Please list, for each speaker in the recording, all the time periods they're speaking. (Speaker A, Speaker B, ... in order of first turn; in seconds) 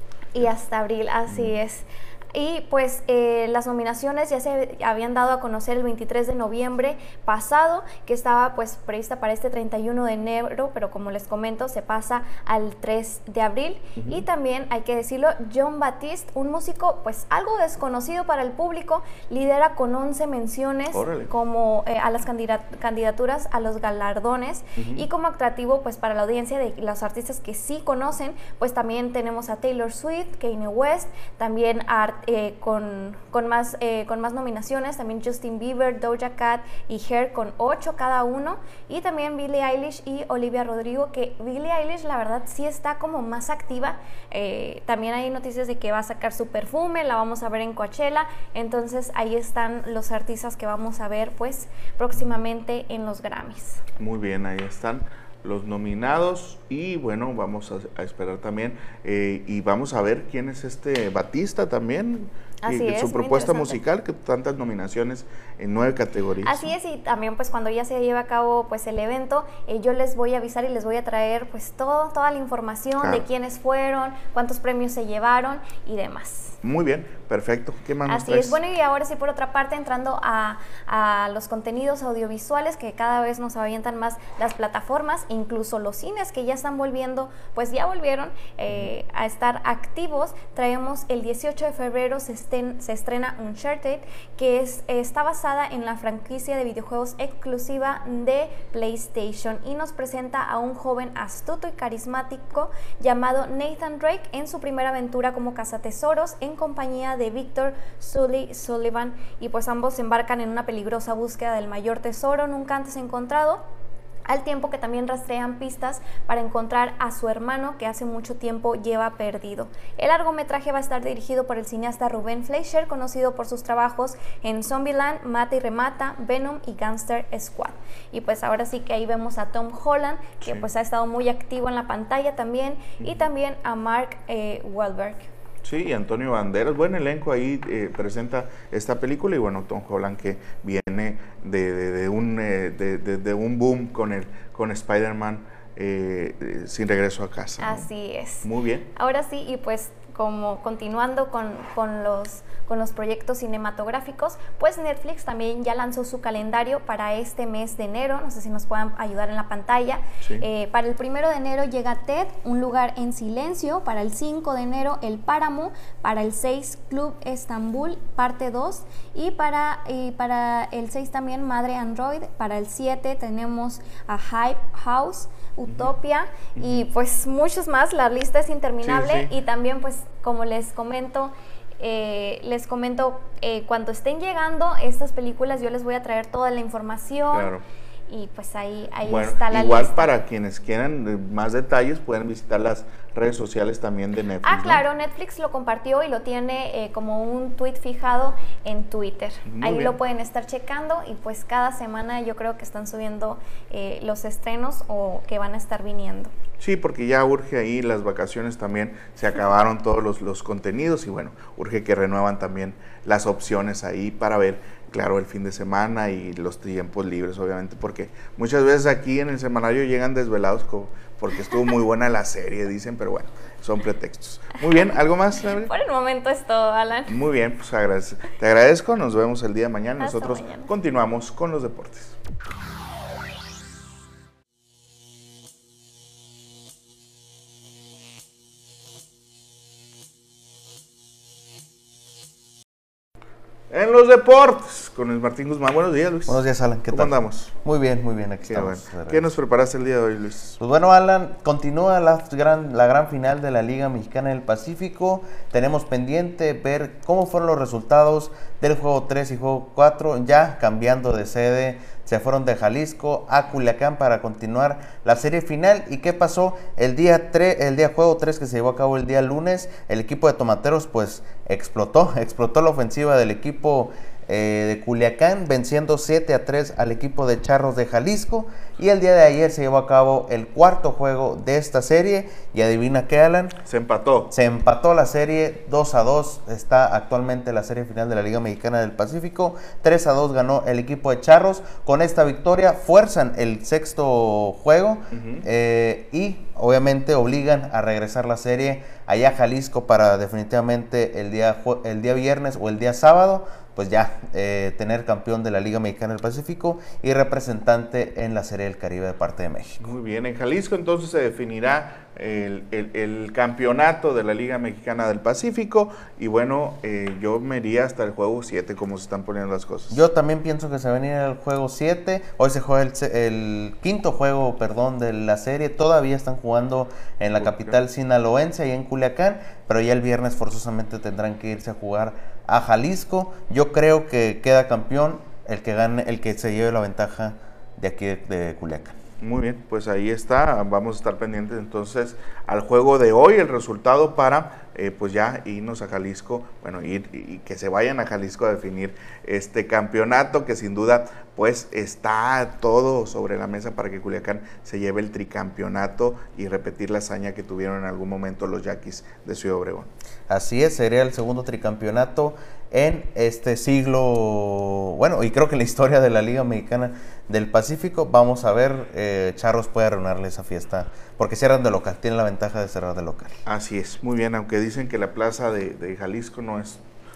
Speaker A: 0.3-53.8, 62.6-63.8, 66.4-76.6, 78.0-113.6, 114.3-135.3, 147.6-187.5, 188.1-190.1, 194.4-206.3, 225.7-227.2, 230.0-230.7
Speaker B: 1.3-1.5, 14.0-14.2, 20.9-21.3, 24.8-25.0, 54.0-66.7, 76.6-78.6, 135.6-147.9, 148.4-148.9, 160.2-160.4, 176.6-176.8, 178.8-179.3, 187.3-187.6, 189.0-194.8, 199.4-200.0, 206.6-225.7, 227.1-232.2, 243.7-246.4, 246.9-247.5, 248.4-250.6, 283.6-284.3, 295.1-295.5, 309.8-320.0, 327.4-327.8, 339.2-359.9, 373.4-376.8
Speaker C: 246.3-249.3, 250.6-283.6, 284.3-309.9, 319.9-338.9, 360.3-373.4